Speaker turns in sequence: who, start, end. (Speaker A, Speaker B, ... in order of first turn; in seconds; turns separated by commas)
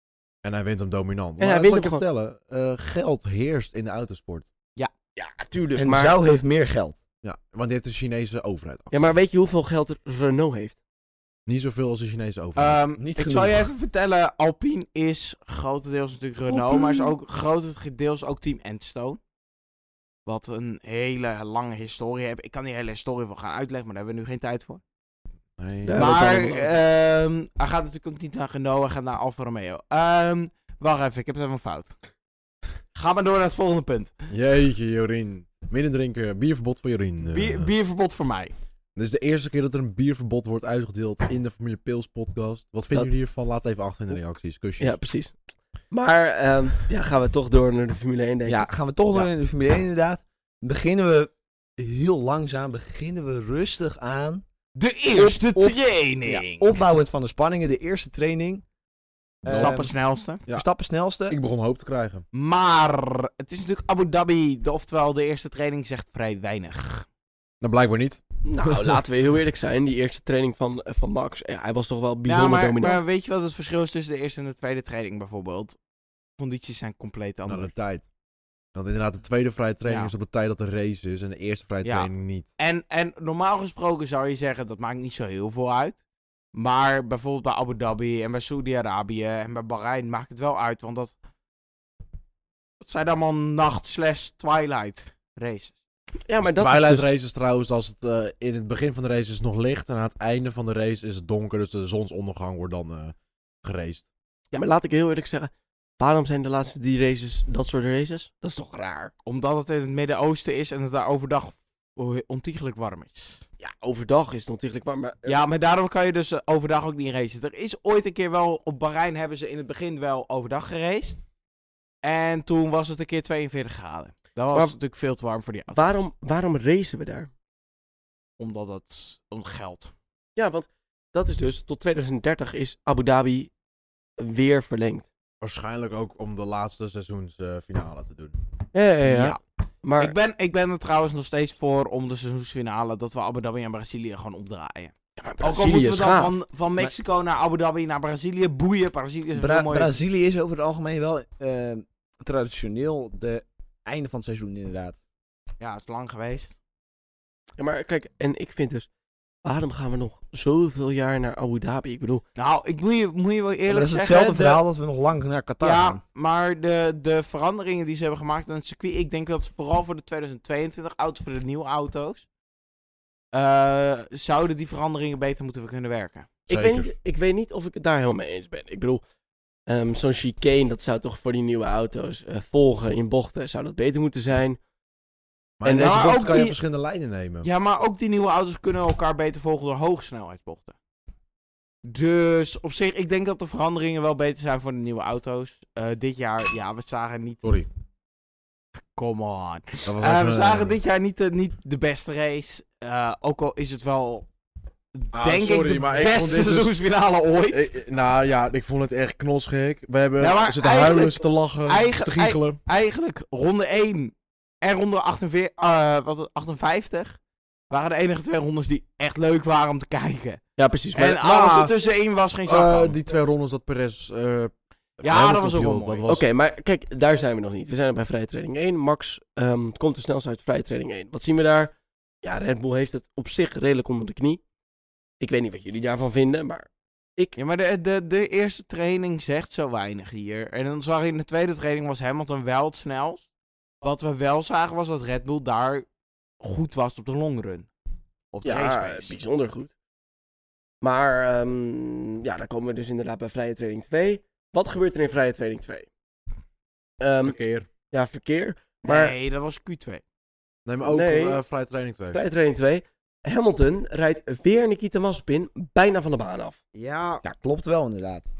Speaker A: 0.4-4.5, Speaker B: 1.4-2.0, Speaker B: 5.1-6.3, Speaker C: 5.8-7.0, Speaker A: 7.2-9.1, Speaker B: 8.9-10.8, Speaker A: 11.5-12.8, Speaker D: 12.6-19.2, Speaker C: 13.0-13.7, Speaker C: 16.5-17.0, Speaker D: 20.2-24.8, Speaker A: 25.6-26.1, Speaker B: 25.9-26.7, Speaker D: 25.9-31.9, Speaker D: 32.9-34.1, Speaker A: 34.3-37.7, Speaker D: 37.3-38.5, Speaker A: 39.0-45.0, Speaker B: 44.8-45.4, Speaker B: 45.9-48.7, Speaker C: 48.5-54.4, Speaker D: 54.7-56.8, Speaker C: 55.1-58.6, Speaker C: 59.4-59.9, Speaker A: 59.5-59.9, Speaker D: 59.5-60.4, Speaker C: 60.5-61.4, Speaker A: 61.3-62.2, Speaker D: 62.3-67.0, Speaker A: 67.6-69.0, Speaker B: 68.4-73.0, Speaker D: 72.2-75.8, Speaker D: 76.4-77.7, Speaker A: 77.5-78.0, Speaker A: 78.7-82.5, Speaker D: 79.9-80.1, Speaker D: 81.8-86.0, Speaker D: 86.5-91.1, Speaker D: 92.8-95.8, Speaker B: 96.3-97.0, Speaker A: 96.4-104.0, Speaker B: 104.5-109.1, Speaker D: 109.2-113.4, Speaker B: 113.6-115.4, Speaker D: 115.2-121.2, Speaker D: 122.0-126.0, Speaker B: 125.7-127.3, Speaker D: 128.4-129.9, Speaker B: 130.3-133.5, Speaker B: 134.2-135.1, Speaker A: 135.4-138.3, Speaker B: 138.7-140.1, Speaker D: 139.1-139.4, Speaker D: 140.0-149.9, Speaker B: 145.2-146.3, Speaker C: 149.3-154.9, Speaker D: 155.6-156.5, Speaker B: 157.6-158.9, Speaker B: 159.4-162.2, Speaker D: 162.3-164.6, Speaker C: 163.7-166.0, Speaker D: 165.6-172.2, Speaker D: 173.3-176.3, Speaker B: 176.5-179.0, Speaker A: 176.5-176.9, Speaker B: 179.7-184.6, Speaker A: 185.6-187.5, Speaker B: 185.6-186.2, Speaker D: 185.7-186.6, Speaker D: 187.4-190.7, Speaker D: 191.8-197.4, Speaker A: 197.4-197.7, Speaker D: 198.9-204.3, Speaker A: 199.8-200.8, Speaker D: 204.9-207.7, Speaker A: 205.1-206.7, Speaker A: 207.5-212.6, Speaker D: 210.2-217.2, Speaker D: 217.7-220.4, Speaker B: 220.6-221.1, Speaker D: 220.9-222.9, Speaker A: 221.0-221.7, Speaker A: 222.4-226.2, Speaker D: 225.0-226.1, Speaker B: 226.1-234.4, Speaker B: 235.2-237.4, Speaker D: 237.4-243.2, Speaker D: 243.8-245.8, Speaker D: 246.4-247.7, Speaker D: 248.3-249.2, Speaker B: 248.4-249.7, Speaker B: 250.8-255.9, Speaker B: 257.0-257.4, Speaker A: 257.2-257.7, Speaker B: 257.9-259.1, Speaker D: 258.8-260.0, Speaker A: 260.6-262.2, Speaker B: 260.8-261.4, Speaker B: 262.1-266.6, Speaker D: 266.7-267.2, Speaker C: 267.2-268.2